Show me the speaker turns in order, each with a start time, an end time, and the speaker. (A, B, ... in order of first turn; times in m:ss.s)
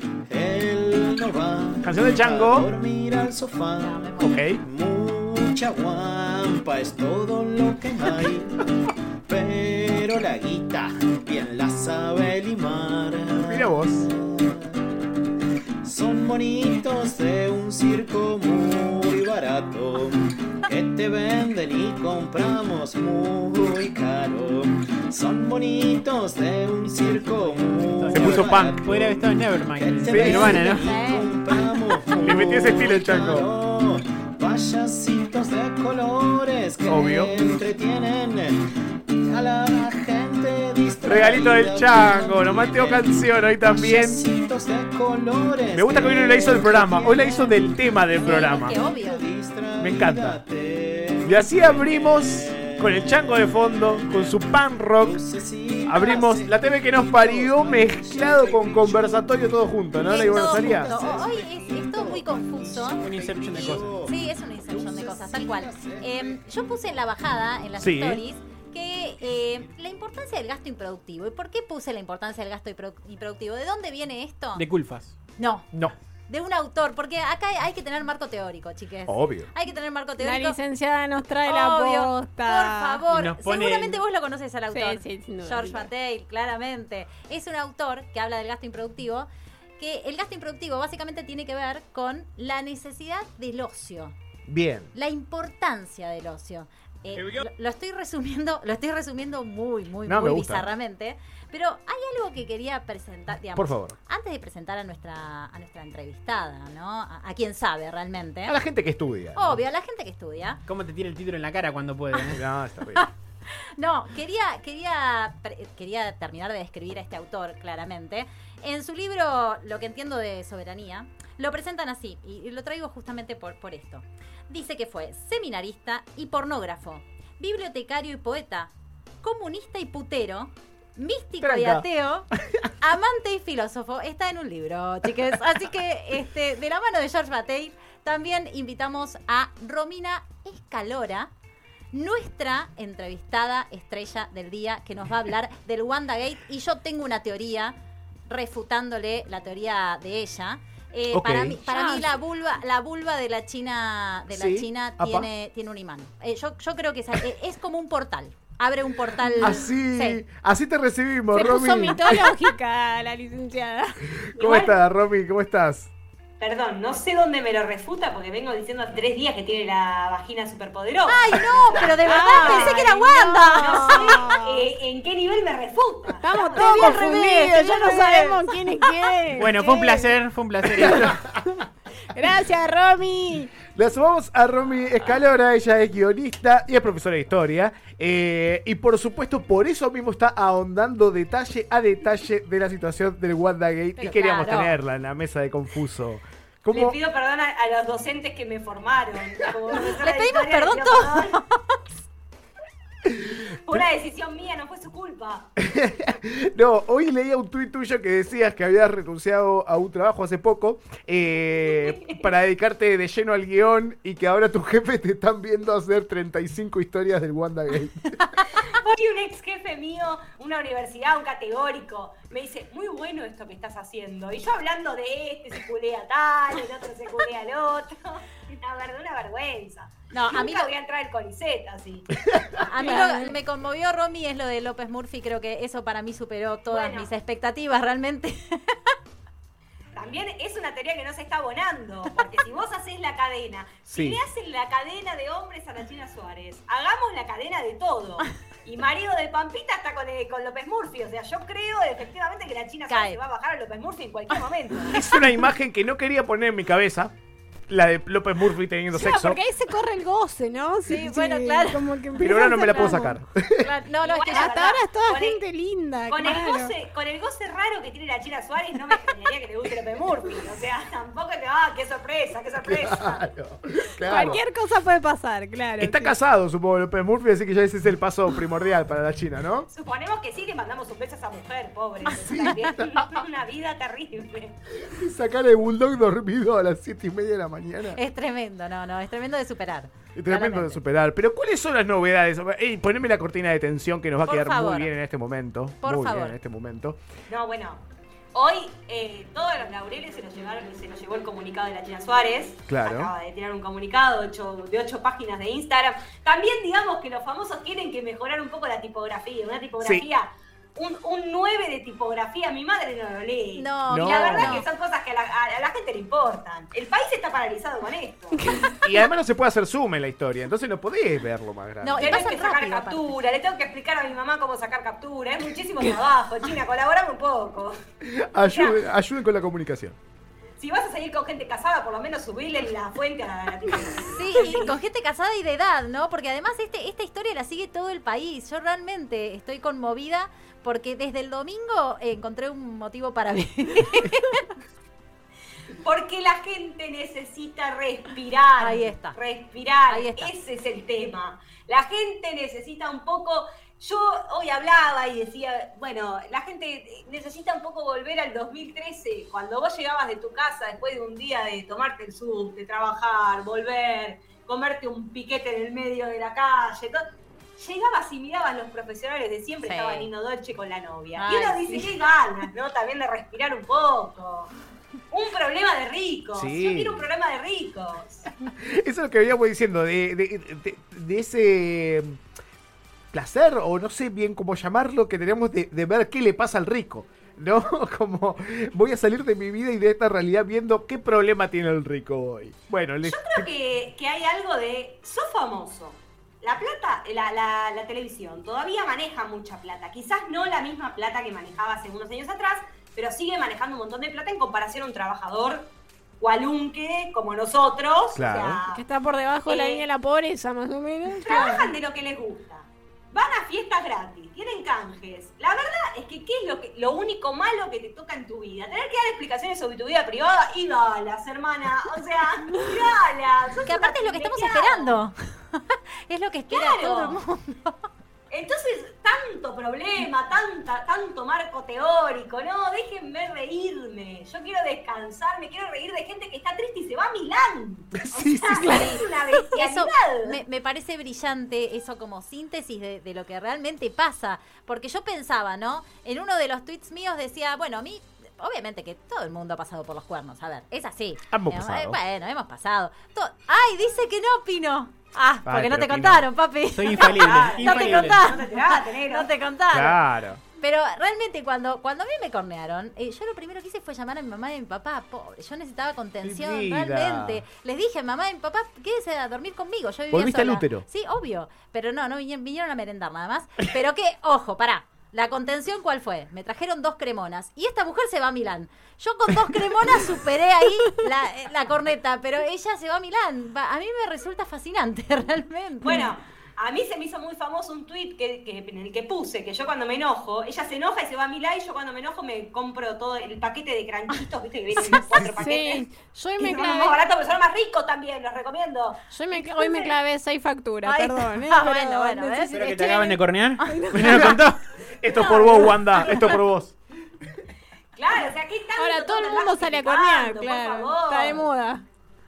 0:00.3-0:08.7 A
0:01.8-0:02.7 B
0:03.8-0:04.4 C
0:04.2-0:04.6 B
0:09.3-0:14.9 A
0:13.4-0:14.1 B
0:15.8-0:54.4 A
0:27.1-0:30.9 D
0:28.1-0:28.8 B
0:30.1-0:30.6 B
0:30.7-0:31.3 C
0:32.2-0:33.5 B
0:36.9-0:37.3 B
0:41.0-0:44.2 B
0:45.7-0:48.8 B
0:48.2-0:49.2 C
0:49.8-0:50.4 B
0:51.2-0:55.2 B
0:55.0-1:07.0 A
0:55.9-1:00.9 B
1:00.0-1:03.0 C
1:03.0-1:03.9 D
1:04.0-1:14.6 C
1:07.8-1:08.2 B
1:14.6-1:15.1 D
1:15.4-1:15.7 C
1:16.3-1:20.6 C
1:19.1-1:19.5 B
1:20.2-1:23.1 E
1:21.5-1:34.1 C
1:23.1-1:24.0 D
1:24.7-1:25.9 E
1:34.5-1:34.9 B
1:34.9-1:48.6 C
1:40.0-1:40.7 B
1:43.5-1:44.0 B
1:48.4-1:49.6 B
1:49.3-1:50.6 C
1:50.7-1:52.4 D
1:52.2-1:53.1 B
1:52.9-2:08.7 C
2:09.2-2:12.3 C
2:11.4-2:11.9 B
2:12.8-2:21.3 C
2:21.9-2:27.8 C
2:28.3-2:40.2 C
2:31.1-2:31.6 B
2:31.6-2:32.1 E
2:34.3-2:35.3 B
2:39.3-2:39.6 E
2:39.4-2:42.2 B
2:41.3-2:44.2 E
2:44.4-2:44.8 F
2:44.4-2:45.9 B
2:46.4-2:57.1 F
2:51.1-2:54.3 C
2:52.0-2:54.7 E
2:56.1-3:00.1 E
2:56.6-2:58.5 C
2:59.3-3:01.2 D
3:00.7-3:01.4 B
3:00.8-3:01.2 E
3:02.1-3:03.5 E
3:03.7-3:17.0 B
3:14.0-3:14.8 C
3:16.7-3:21.4 F
3:19.7-3:21.9 C
3:23.1-3:23.8 B
3:23.5-3:25.5 F
3:25.6-3:38.1 B
3:31.7-3:32.3 F
3:38.5-3:52.1 F
3:50.1-3:50.7 C
3:52.6-3:58.4 C
3:52.8-3:53.3 E
3:56.7-3:57.1 F
4:00.0-4:14.9 F
4:03.9-4:04.2 B
4:12.9-4:13.2 C
4:14.9-4:17.1 B
4:17.7-4:19.4 B
4:18.9-4:23.2 E
4:20.8-4:21.8 C
4:22.2-4:23.7 B
4:23.6-4:24.6 C
4:24.0-4:25.4 F
4:24.3-4:26.7 E
4:26.1-4:33.2 F
4:28.9-4:29.2 E
4:32.6-4:34.4 B
4:34.0-4:36.1 E
4:35.8-4:39.7 B
4:39.7-4:44.6 F
4:42.1-4:43.1 B
4:42.1-4:42.6 C
4:44.8-4:48.0 B
4:47.9-4:50.8 C
4:50.1-4:57.0 B
4:54.2-4:54.9 C
4:55.8-4:56.4 C
4:57.3-5:18.5 F
5:02.7-5:03.1 B
5:09.8-5:10.0 B
5:13.5-5:14.7 C
5:13.9-5:14.6 B
5:18.3-5:18.8 E
5:18.8-5:22.2 B
5:21.8-5:23.2 C
5:22.0-5:27.8 F
5:28.0-5:30.0 B
5:28.5-5:28.8 F
5:30.6-5:34.7 F
5:34.1-5:44.5 C
5:45.8-6:07.0 F
5:48.6-5:49.2 C
5:49.9-5:50.3 C
6:07.6-6:14.5 F
6:09.6-6:10.1 C
6:11.1-6:11.9 C
6:15.1-6:18.3 F
6:16.3-6:17.0 B
6:18.4-6:22.2 B
6:23.1-6:33.5 B
6:33.0-6:48.8 F
6:48.1-6:48.6 B
6:48.7-6:51.7 E
6:49.5-6:49.8 F
6:51.1-7:05.0 F
7:03.6-7:07.8 C
7:06.5-7:07.2 F
7:08.3-7:20.4 F
7:18.0-7:18.8 B
7:18.5-7:18.9 E
7:18.6-7:40.0 C
7:31.3-7:32.0 B
7:35.4-7:36.3 B
7:36.7-7:38.2 D
7:36.9-7:39.3 F
7:39.7-7:40.4 B
7:40.6-8:06.1 C
7:46.2-7:47.4 B
7:50.1-7:50.8 B
8:05.8-8:15.8 F
8:14.8-8:15.2 C
8:15.3-8:17.0 E
8:16.4-8:19.9 F
8:19.1-8:24.5 E
8:20.8-8:22.7 C
8:22.5-8:24.6 D
8:24.0-8:24.3 B
8:24.9-8:26.8 B
8:25.1-8:26.4 E
8:28.0-8:31.5 F
8:28.8-8:31.8 E